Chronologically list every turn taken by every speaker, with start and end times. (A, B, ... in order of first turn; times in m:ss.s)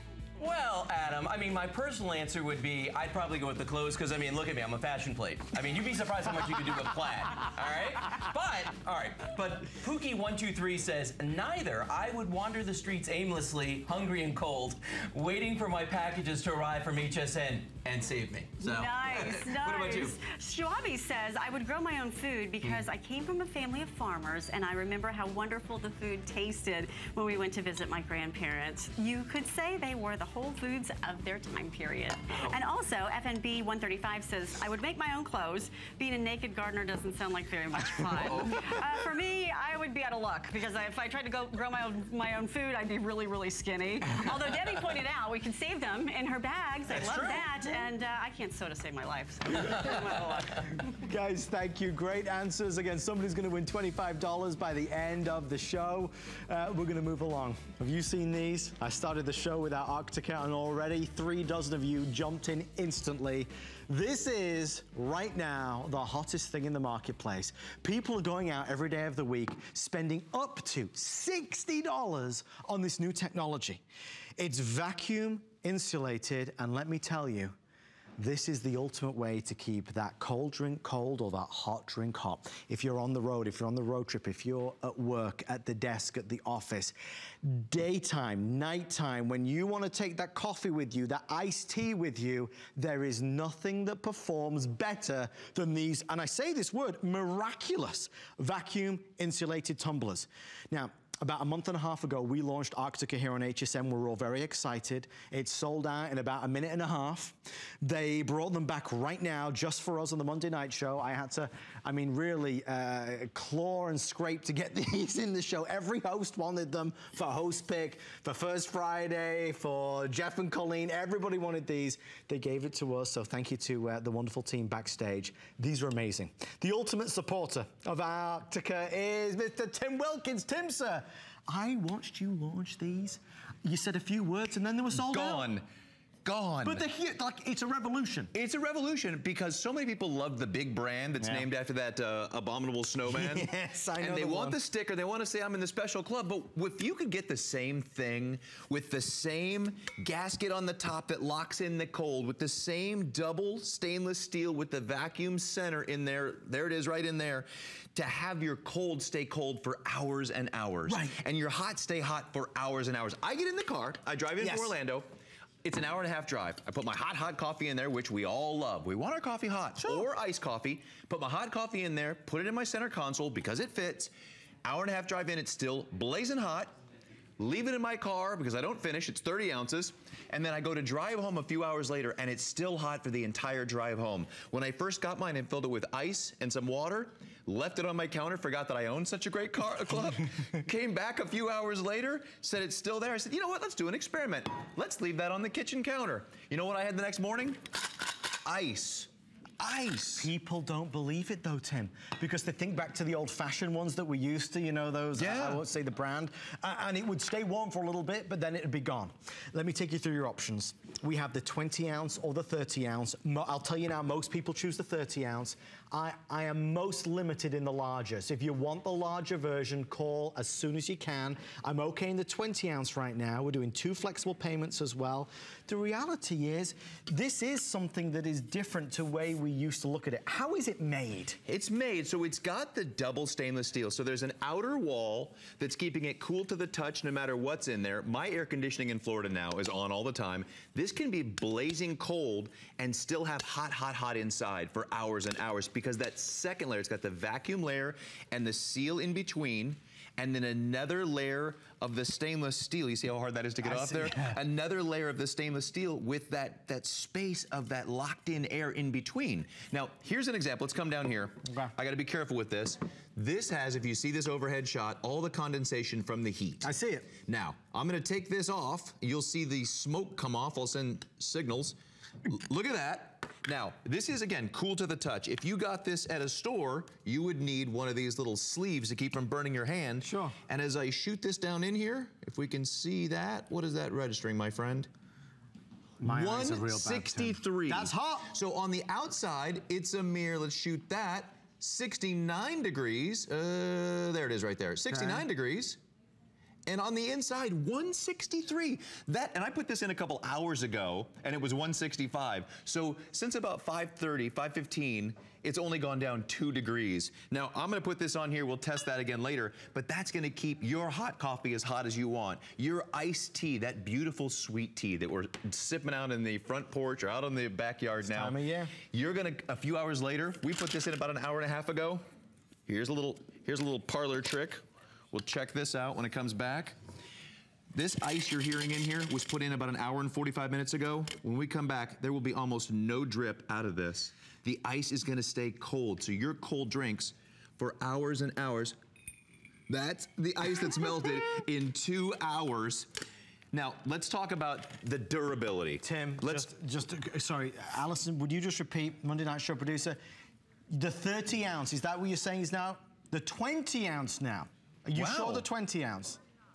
0:00.4-0:20.2 A
0:18.6-0:50.7 B
0:18.7-0:20.0 C
0:38.0-0:38.8 C
0:46.9-0:47.6 C
0:51.0-1:13.8 D
1:14.4-1:17.5 D
1:18.2-2:15.5 D
2:14.9-2:15.7 C
2:16.2-2:16.8 C
2:16.6-2:18.3 D
2:18.3-2:45.1 C
2:21.2-2:21.5 D
2:23.1-2:24.6 D
2:40.9-2:41.2 D
2:44.4-2:44.7 D
2:45.6-2:54.1 C
2:49.8-2:50.1 D
2:54.6-2:56.8 C
2:57.4-3:17.6 C
3:18.4-3:19.1 C
3:19.6-3:20.3 C
3:20.2-3:51.4 D
3:25.1-3:25.6 C
3:51.5-4:26.7 C
4:13.6-4:14.4 D
4:21.4-4:21.7 D
4:26.6-4:27.1 D
4:27.2-4:44.9 C
4:40.0-4:40.4 D
4:46.0-4:48.3 D
4:46.0-4:55.8 C
4:54.9-4:55.2 D
4:56.7-5:22.0 C
5:18.0-5:18.7 D
5:22.7-5:26.8 C
5:27.7-5:38.8 C
5:39.7-5:42.9 C
5:43.5-5:46.5 C
5:45.8-5:50.0 D
5:50.7-5:56.2 D
5:54.9-5:55.5 C